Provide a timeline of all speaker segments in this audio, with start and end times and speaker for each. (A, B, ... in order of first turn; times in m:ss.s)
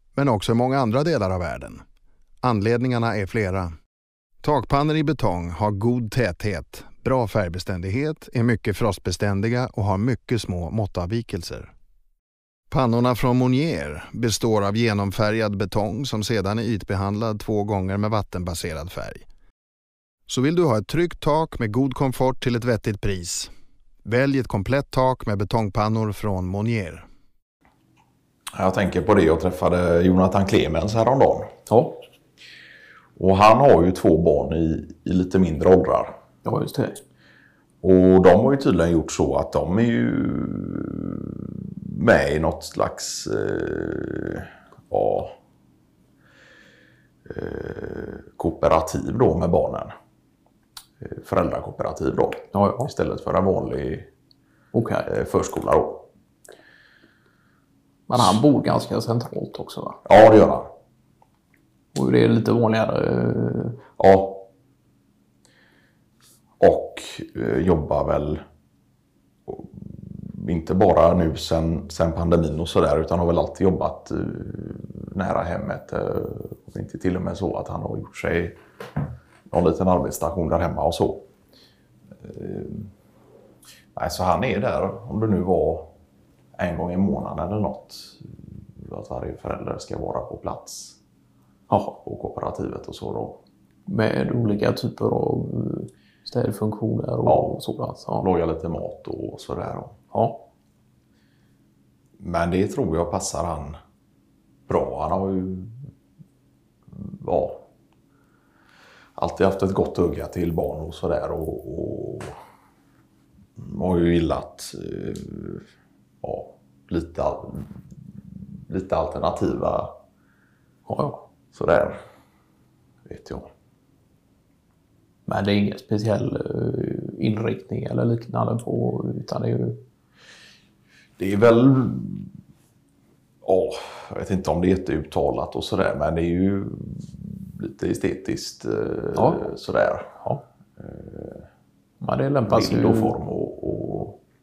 0:00.2-0:01.8 A
0:02.4-0:03.7 A
0:04.4-0:11.7 A
0:12.7-0:19.2 A
0:20.3-0:23.5 A
0:24.0-0:27.1 A
0:28.6-0:31.5 B
0:31.7-0:32.0 C
0:33.2-0:36.2 B
0:36.4-0:37.0 C
0:37.8-0:45.3 B
0:47.3-0:49.9 B
0:51.0-0:54.1 B
0:52.5-0:52.9 C
0:54.7-0:55.1 C
0:55.1-0:56.1 B
0:58.1-1:00.0 C
1:00.0-1:00.7 B
1:01.9-1:03.8 C
1:04.0-1:04.5 B
1:06.6-1:08.4 B
1:09.5-1:18.6 B
1:19.5-1:21.3 B
1:22.2-1:22.9 B
1:24.0-1:25.9 B
1:26.6-1:31.0 B
1:31.7-1:32.0 C
1:32.0-1:33.4 B
1:33.9-1:38.3 C
1:37.3-1:37.6 B
1:38.2-1:40.0 B
1:40.1-1:40.4 C
1:42.2-1:43.8 B
1:44.7-1:45.8 B
1:46.9-1:47.6 B
1:49.2-1:52.4 B
1:53.6-1:55.6 B
1:56.2-1:59.9 B
2:00.9-2:01.3 C
2:01.5-2:02.0 B
2:03.1-2:03.5 B
2:05.3-2:09.8 C
2:11.2-2:12.3 B
2:13.4-2:20.1 B
2:19.2-2:19.4 C
2:20.8-2:21.5 B
2:22.0-2:23.2 C
2:22.5-2:24.2 B